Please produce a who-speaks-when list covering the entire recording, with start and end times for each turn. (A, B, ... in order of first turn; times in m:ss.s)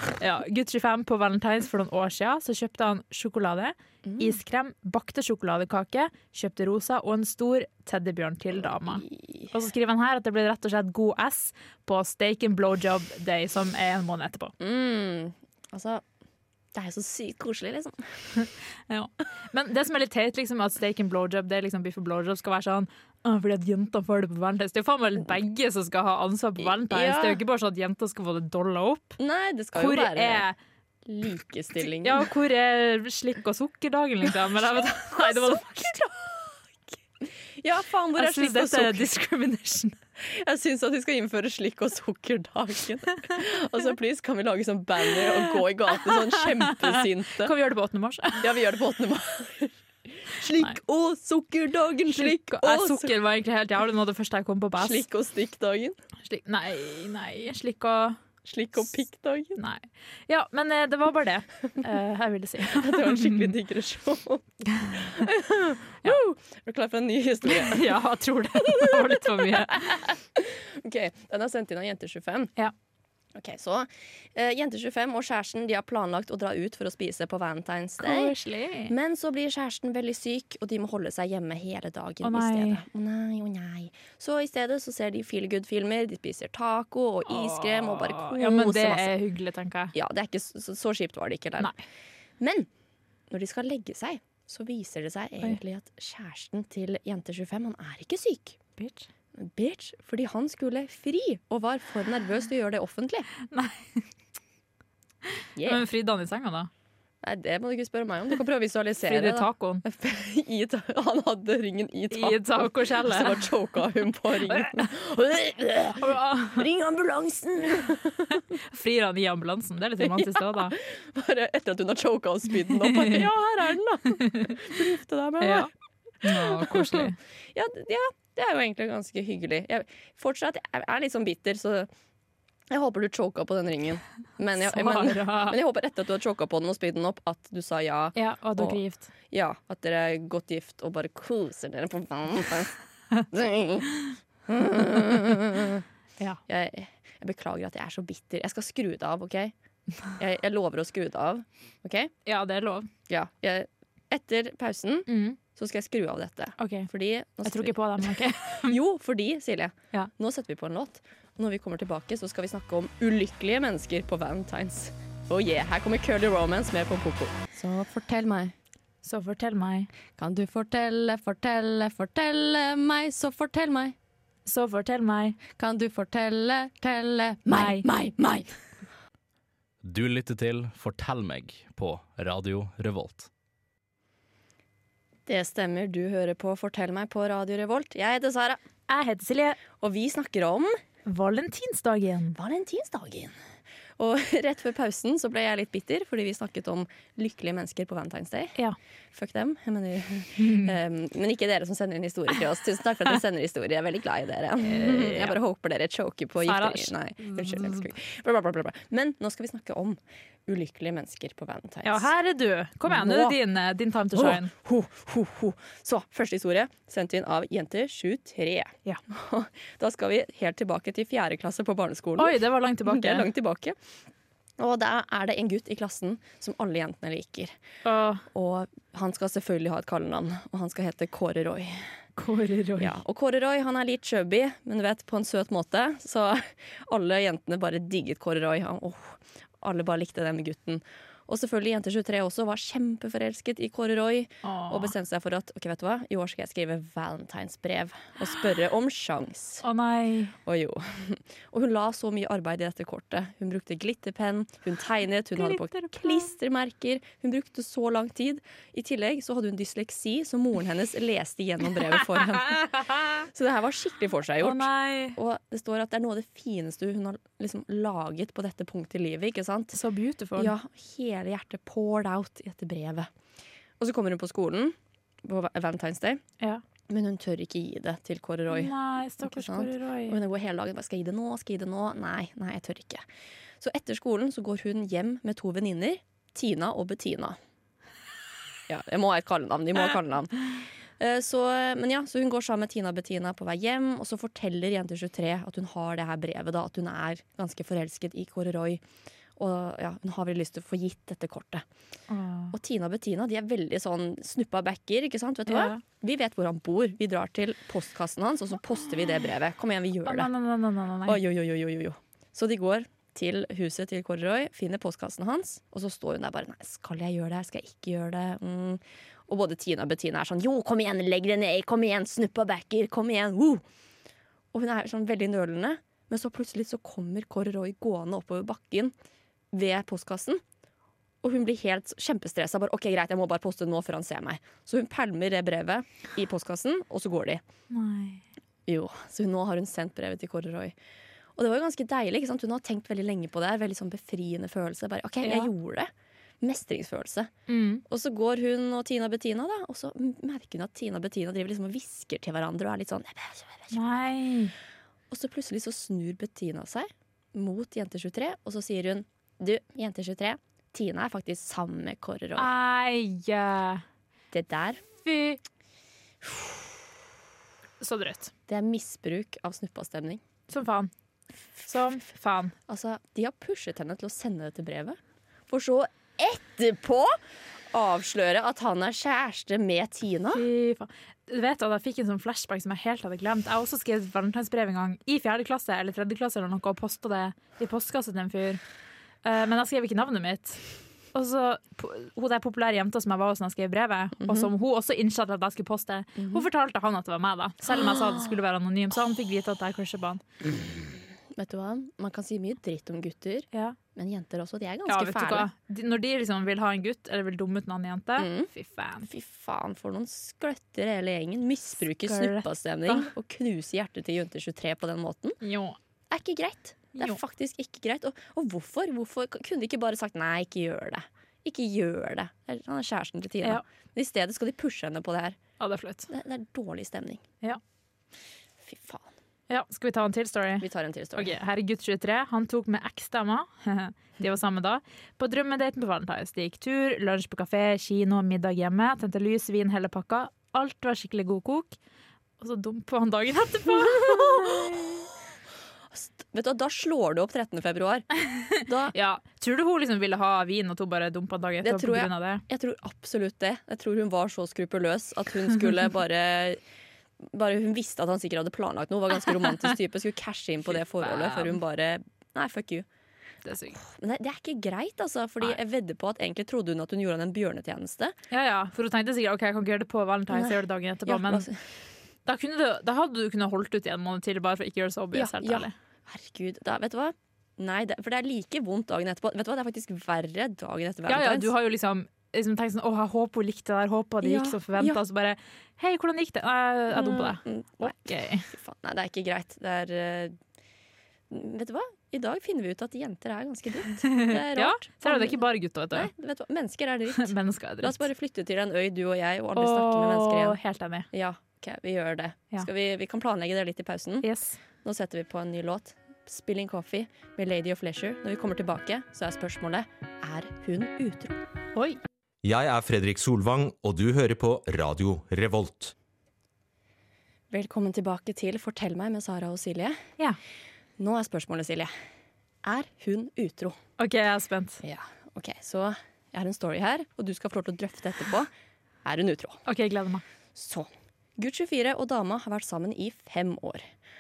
0:00.2-0:14.5 A
0:04.0-0:04.4 B
0:08.6-0:09.5 B
0:14.6-0:16.0 B
0:16.7-0:18.1 B
0:18.4-0:29.2 A
0:26.6-0:27.4 B
0:29.2-0:30.4 B
0:29.8-0:30.6 A
0:31.1-0:32.3 B
0:31.8-0:35.9 A
0:34.7-0:37.0 B
0:37.6-0:39.1 B
0:38.2-0:40.0 A
0:40.2-0:47.5 B
0:46.0-0:46.4 A
0:47.4-0:48.5 A
0:48.4-0:53.1 B
0:52.1-0:55.0 A
0:54.8-0:56.0 B
0:56.3-0:58.2 A
0:58.4-0:59.6 B
0:59.6-1:03.5 A
1:02.7-1:07.8 B
1:04.7-1:05.2 A
1:07.4-1:10.0 A
1:08.6-1:12.5 B
1:13.4-1:18.3 B
1:18.0-1:18.9 A
1:18.9-1:29.2 B
1:22.2-1:22.8 A
1:27.3-1:29.9 A
1:29.9-1:31.7 B
1:32.4-1:32.7 B
1:33.3-1:38.6 B
1:38.8-1:39.1 A
1:39.4-1:43.3 B
1:43.5-1:44.0 A
1:45.6-1:45.8 B
1:45.6-1:46.7 A
1:47.2-1:58.4 B
1:49.0-1:49.8 A
1:52.1-1:53.5 A
1:56.0-1:56.7 A
1:58.6-2:00.8 A
2:00.0-2:05.7 B
2:05.4-2:05.7 A
2:06.2-2:07.2 A
2:06.2-2:11.9 B
2:12.7-2:18.8 B
2:14.6-2:15.6 A
2:18.2-2:19.1 A
2:19.3-2:22.8 B
2:23.3-2:25.8 B
2:26.5-2:29.5 B
2:30.1-2:32.1 B
2:32.3-2:32.9 A
2:33.1-2:48.5 B
2:35.1-2:35.4 A
2:36.6-2:36.9 A
2:37.4-2:38.8 A
2:49.0-2:49.9 A
2:50.2-2:54.0 B
2:54.5-2:55.4 A
2:55.6-2:58.5 B
2:57.5-2:57.9 A
2:59.8-3:03.3 C
3:05.3-3:08.6 B
3:08.9-3:09.6 A
3:09.8-3:10.8 B
3:11.0-3:12.4 A
3:12.4-3:13.4 B
3:14.0-3:18.6 B
3:19.1-3:32.1 B
3:20.4-3:20.7 A
3:24.6-3:25.4 A
3:26.4-3:27.9 A
3:31.8-3:34.5 A
3:32.9-3:33.4 B
3:34.1-3:43.8 B
3:42.2-3:43.3 A
3:44.6-3:47.6 B
3:47.8-3:48.2 A
3:48.3-3:51.8 B
3:52.2-3:52.9 A
3:52.8-4:09.6 B
4:04.4-4:04.9 A
4:09.6-4:10.3 A
4:10.5-4:29.8 B
4:15.4-4:16.3 A
4:24.4-4:25.2 A
4:29.7-4:30.5 A
4:30.4-4:33.1 B
4:33.8-4:36.2 B
4:36.9-4:43.0 B
4:38.5-4:40.2 A
4:43.6-4:47.4 B
4:48.7-4:58.8 B
4:59.4-5:01.6 B
5:02.1-5:02.5 A
5:02.5-5:10.3 B
5:05.5-5:05.8 A
5:10.0-5:11.2 A
5:11.1-5:23.6 B
5:24.5-5:28.9 B
5:29.5-5:30.4 B
5:31.2-5:37.4 B
5:37.7-5:38.2 A
5:38.7-5:40.7 B
5:41.4-5:47.3 B
5:45.2-5:45.5 A
5:47.5-5:47.8 A
5:47.9-5:54.0 B
5:53.7-5:54.5 A
5:55.1-6:02.5 B
6:02.4-6:03.8 A
6:04.3-6:04.8 B
6:05.0-6:05.4 A
6:07.8-6:08.3 A
6:08.5-6:10.2 B
6:10.5-6:10.9 A
6:11.6-6:12.5 A
6:12.7-6:15.0 B
6:15.5-6:17.2 B
6:17.7-6:20.4 B
6:20.3-6:28.6 A
6:29.2-6:30.6 A
6:31.1-6:40.2 A
6:34.2-6:34.5 B
6:36.2-6:36.5 B
6:41.4-6:45.5 B
6:44.9-6:49.1 A
6:48.2-6:48.5 B
6:49.0-6:55.4 B
6:51.9-6:53.1 A
6:55.4-6:55.8 A
6:56.1-7:05.4 B
7:05.6-7:06.1 A
7:06.1-7:07.2 B
7:08.6-7:09.1 B
7:09.5-7:21.8 A
7:10.6-7:11.4 B
7:22.4-7:25.0 A
7:23.8-7:24.9 B
7:25.9-7:28.9 B
7:28.9-7:32.4 A
7:31.6-7:36.6 B
7:37.2-7:42.9 B
7:40.7-7:41.6 A
7:43.4-7:43.8 A
7:43.8-7:48.2 B
7:48.3-7:51.5 A
7:50.3-7:51.6 B
7:52.2-7:55.7 A
7:55.1-8:01.5 B
8:01.1-8:08.5 A
8:04.2-8:05.0 B
8:06.9-8:10.4 B
8:11.3-8:20.6 B
8:14.1-8:16.1 A
8:17.2-8:18.1 A
8:19.6-8:21.1 A
8:21.1-8:24.3 B
8:24.2-8:24.6 A
8:24.8-8:31.4 B
8:32.4-8:35.9 D
8:37.5-8:40.0 B
8:41.0-8:41.9 B
8:42.6-8:43.8 B
8:44.0-8:44.8 A
8:44.8-8:48.5 B
8:49.0-8:49.6 B
8:49.7-8:50.2 A
8:50.6-8:53.8 B